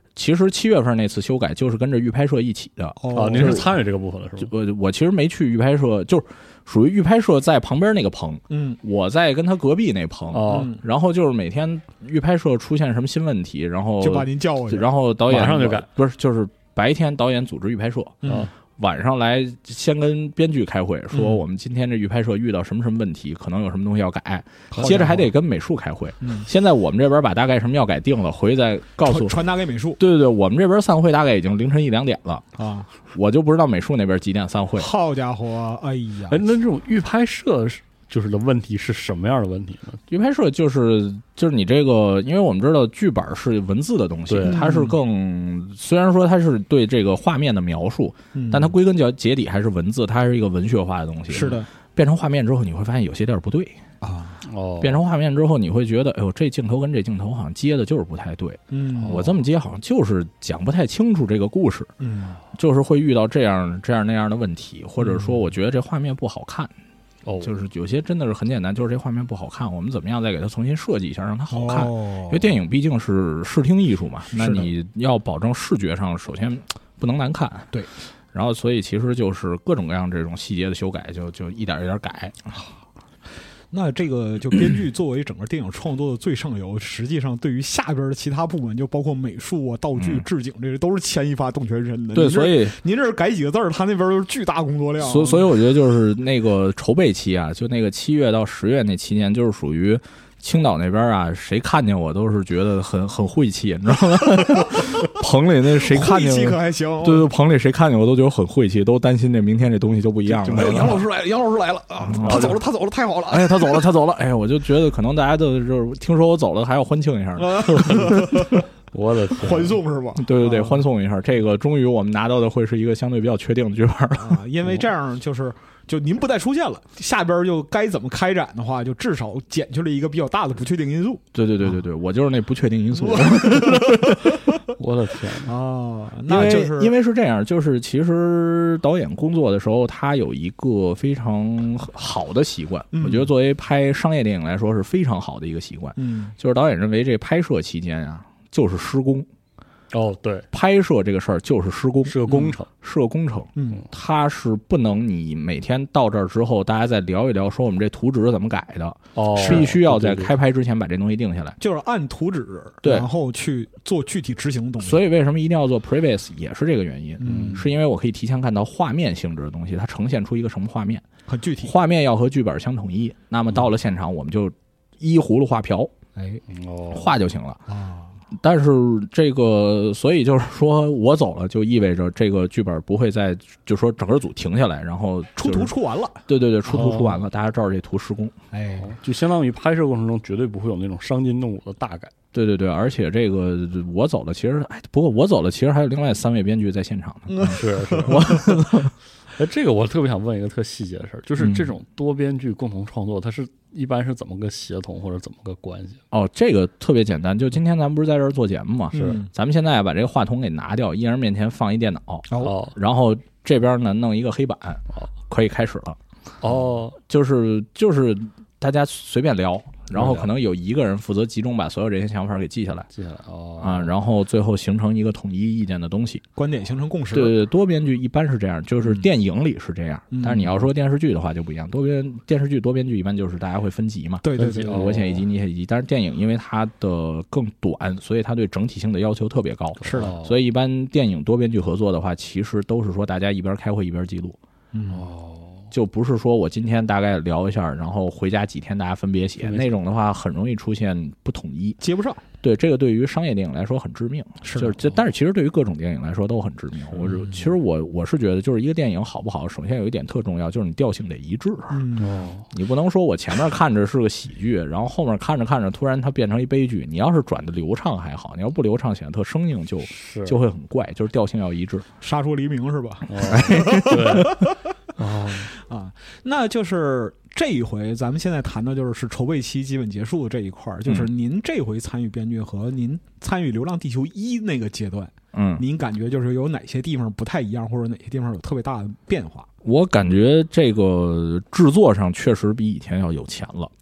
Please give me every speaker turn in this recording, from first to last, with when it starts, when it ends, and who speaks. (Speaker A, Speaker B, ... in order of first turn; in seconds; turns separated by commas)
Speaker A: 0.1-3.7, Speaker B: 3.0-3.7, Speaker C: 3.1-4.5, Speaker A: 4.4-29.4, Speaker B: 8.5-8.8, Speaker C: 10.3-10.7, Speaker B: 10.5-10.8, Speaker B: 14.0-14.9, Speaker C: 15.3-15.9, Speaker B: 18.2-18.5, Speaker B: 21.1-21.4, Speaker C: 24.7-25.0, Speaker B: 24.7-25.3, Speaker B: 26.2-26.5, Speaker B: 29.0-30.0, Speaker A: 30.0-32.4, Speaker B: 32.6-32.9, Speaker A: 33.1-34.9, Speaker B: 34.8-36.5, Speaker C: 36.3-40.0, Speaker A: 40.1-53.8, Speaker C: 44.3-44.6, Speaker B: 44.4-45.0, Speaker B: 48.3-48.7, Speaker B: 51.3-51.7, Speaker B: 54.0-54.4, Speaker C: 54.4-55.0, Speaker A: 54.8-61.9, Speaker B: 58.7-59.2, Speaker C: 59.0-59.4, Speaker B: 62.0-62.4, Speaker A: 62.5-66.7, Speaker B: 65.0-65.3, Speaker C: 67.2-67.5, Speaker A: 67.4-77.8, Speaker B: 71.5-72.5, Speaker B: 74.3-74.7, Speaker A: 78.3-82.4, Speaker B: 83.7-95.5, Speaker A: 90.0-90.2, Speaker A: 92.1-92.8, Speaker A: 95.0-111.0, Speaker B: 105.8-107.3, Speaker C: 110.4-111.0, Speaker B: 110.5-113.8, Speaker A: 112.0-112.6, Speaker C: 112.2-112.6, Speaker A: 113.3-118.6, Speaker B: 117.4-118.6, Speaker C: 117.8-118.3, Speaker C: 118.9-119.8, Speaker B: 119.4-120.8, Speaker A: 120.2-124.4, Speaker B: 124.2-131.2, Speaker A: 131.3-134.4, Speaker B: 133.0-134.2, Speaker C: 134.7-135.5, Speaker B: 135.4-136.9, Speaker A: 136.3-149.3, Speaker B: 142.9-143.3, Speaker B: 146.0-146.3, Speaker C: 149.9-150.5, Speaker A: 150.5-161.6, Speaker C: 152.1-152.7, Speaker B: 152.3-152.5, Speaker B: 153.6-153.8, Speaker C: 159.1-160.3, Speaker B: 161.6-165.0, Speaker A: 162.8-163.1, Speaker A: 164.8-171.1, Speaker B: 167.2-167.7, Speaker C: 167.2-167.6, Speaker B: 171.3-171.7, Speaker A: 171.6-175.9, Speaker B: 176.2-176.4, Speaker C: 176.5-177.1, Speaker A: 176.9-177.6, Speaker B: 177.7-178.2, Speaker A: 178.3-185.7, Speaker B: 185.3-186.2, Speaker A: 186.3-188.4, Speaker C: 186.7-187.2, Speaker B: 188.5-188.9, Speaker C: 188.8-192.1, Speaker A: 192.3-198.9, Speaker B: 197.3-198.6, Speaker C: 197.5-198.5, Speaker C: 199.3-206.0, Speaker A: 201.4-201.7, Speaker A: 206.1-216.0, Speaker B: 208.9-209.3, Speaker B: 212.3-212.6, Speaker C: 212.4-212.8, Speaker C: 216.4-217.0, Speaker A: 217.0-222.9, Speaker C: 219.9-220.3, Speaker C: 222.9-223.9, Speaker A: 223.6-226.2, Speaker B: 226.3-227.3, Speaker A: 227.1-244.4, Speaker B: 230.1-230.6, Speaker B: 234.2-235.0, Speaker C: 234.3-235.2, Speaker B: 239.8-240.1, Speaker C: 239.8-240.3, Speaker B: 244.7-245.1, Speaker C: 244.9-245.7, Speaker A: 245.7-251.8, Speaker C: 249.4-249.7, Speaker B: 251.8-252.2, Speaker A: 252.4-261.9, Speaker B: 254.4-254.9, Speaker B: 257.0-257.4, Speaker B: 261.7-262.3, Speaker C: 262.0-262.5, Speaker A: 262.5-271.9, Speaker C: 269.9-270.4, Speaker B: 272.0-274.6, Speaker C: 273.1-275.5, Speaker A: 273.3-274.2, Speaker B: 275.5-289.5, Speaker A: 285.3-285.6, Speaker A: 289.6-293.7